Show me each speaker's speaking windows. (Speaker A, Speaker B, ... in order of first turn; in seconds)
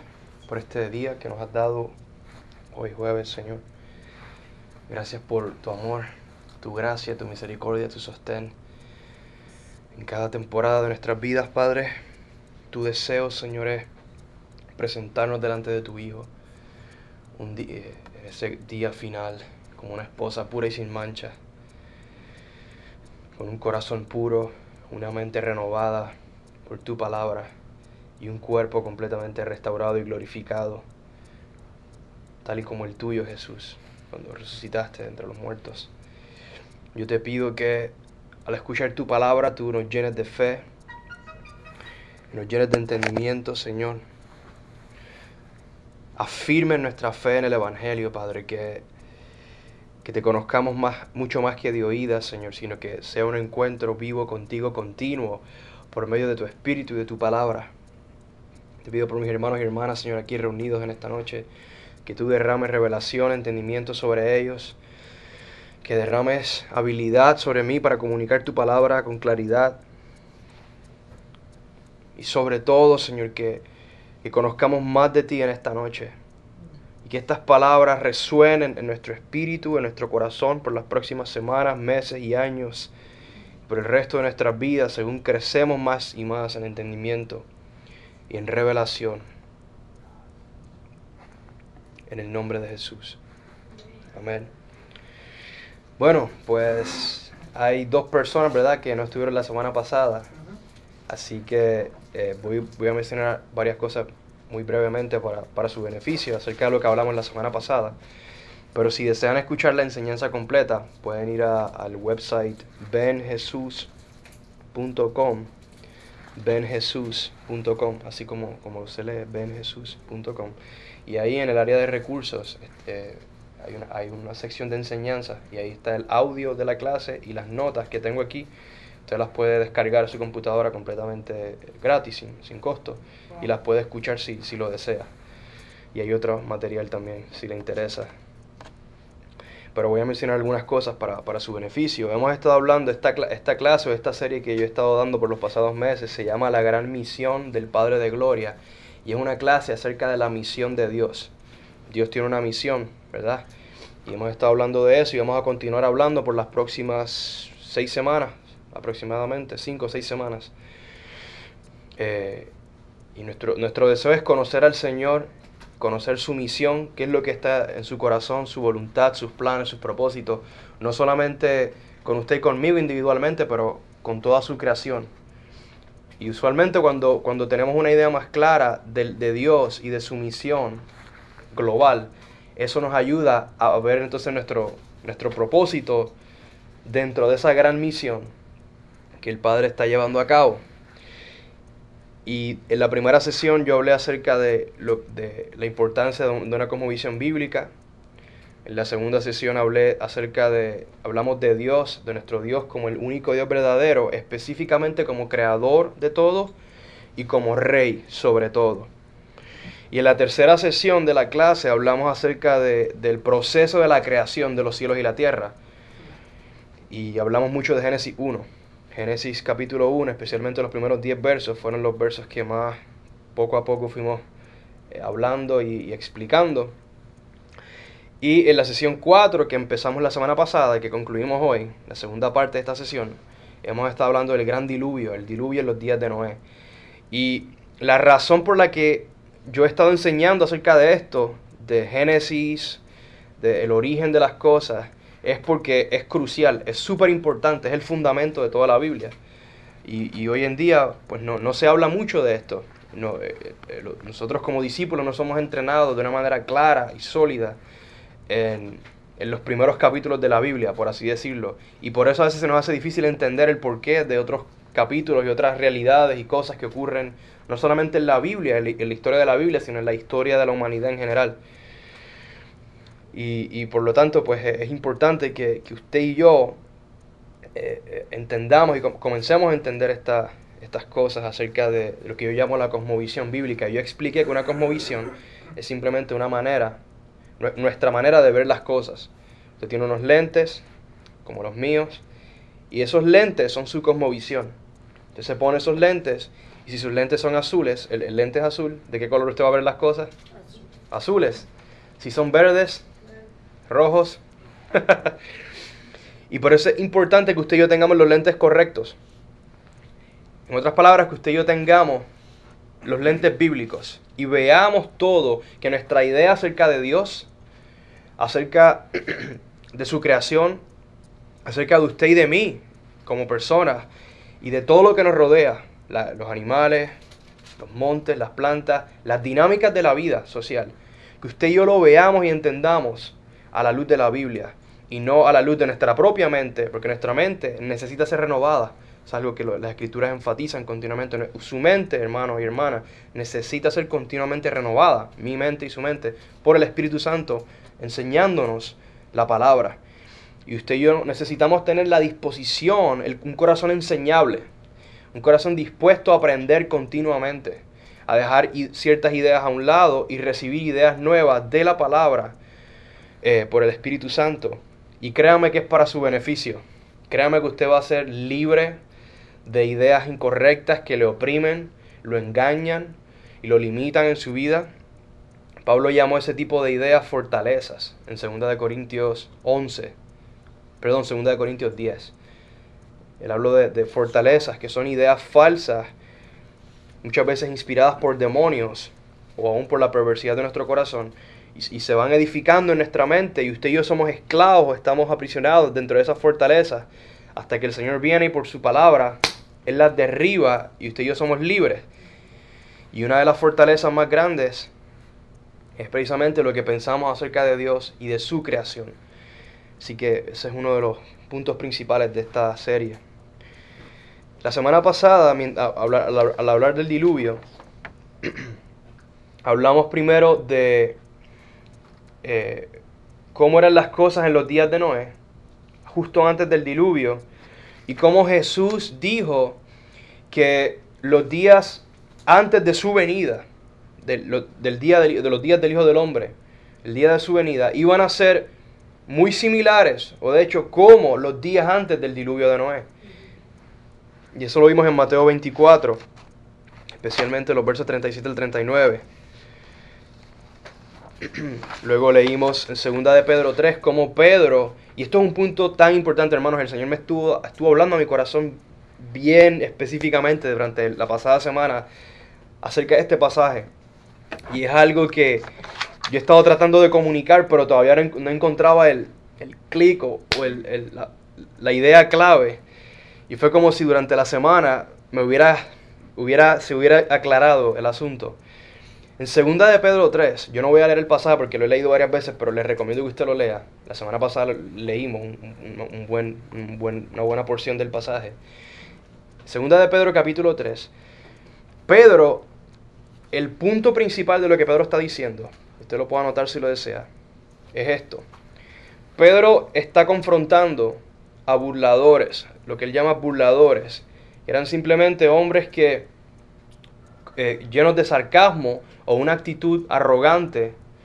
Speaker A: 0.5-1.9, 2.7-3.6, 4.9-6.1, 6.6-8.5, 9.9-11.9, 12.7-13.9, 14.8-16.3, 17.4-21.4, 23.4-26.1, 26.6-27.5, 28.2-30.9, 32.4-35.9, 36.9-37.9, 38.5-40.6, 42.3-44.0, 46.1-48.8, 50.0-57.7, 58.8-61.5, 62.0-64.8, 65.8-69.8, 72.2-73.6, 74.2-76.1, 77.0-82.9, 83.7-87.5, 88.3-89.2, 92.1-93.2, 94.1-94.5, 96.0-100.3, 101.1-108.0, 108.7-113.9, 114.7-115.5, 116.3-128.5, 129.1-135.1, 135.9-138.1, 139.7-151.3, 151.9-153.5, 154.0-160.5, 162.0-162.5, 163.2-165.3, 165.8-175.1, 176.2-180.8, 181.5-186.1, 186.8-188.3, 189.2-190.6, 192.2-197.7, 198.6-206.5, 207.2-208.9, 209.9-215.6, 216.9-222.8, 223.3-224.2, 224.9-226.8, 228.2-236.4, 237.1-242.8, 243.4-249.2, 249.8-257.6, 258.3-271.4, 273.1-276.6, 277.5-286.8, 287.4-290.6, 291.2-292.0, 292.7-294.5, 295.1-300.1, 300.9-301.5, 302.0-302.9, 303.7-304.2, 304.7-305.1, 306.3-309.0, 310.5-312.1, 312.8-317.3, 318.2-320.6, 321.4-323.9, 324.4-326.9, 327.6-349.8, 350.4-354.5, 355.1-362.4, 363.2-368.8, 369.4-374.7, 375.6-379.9, 380.8-382.1, 383.2-385.9, 387.0-401.9, 402.9-404.7, 405.8-408.9, 409.8-413.0, 414.4-417.4, 418.2-418.5, 419.4-421.0, 422.2-422.8, 423.3-425.1, 425.9-427.2, 427.9-429.6, 430.3-433.4, 434.0-438.5, 439.1-442.9, 444.3-446.0, 447.0-449.0, 451.2-461.9, 462.6-463.7, 464.5-465.5, 466.1-472.6, 473.3-478.4, 479.2-488.4, 489.4-490.9, 491.9-492.4, 493.3-497.1, 497.7-498.2, 499.1-506.1, 507.4-510.8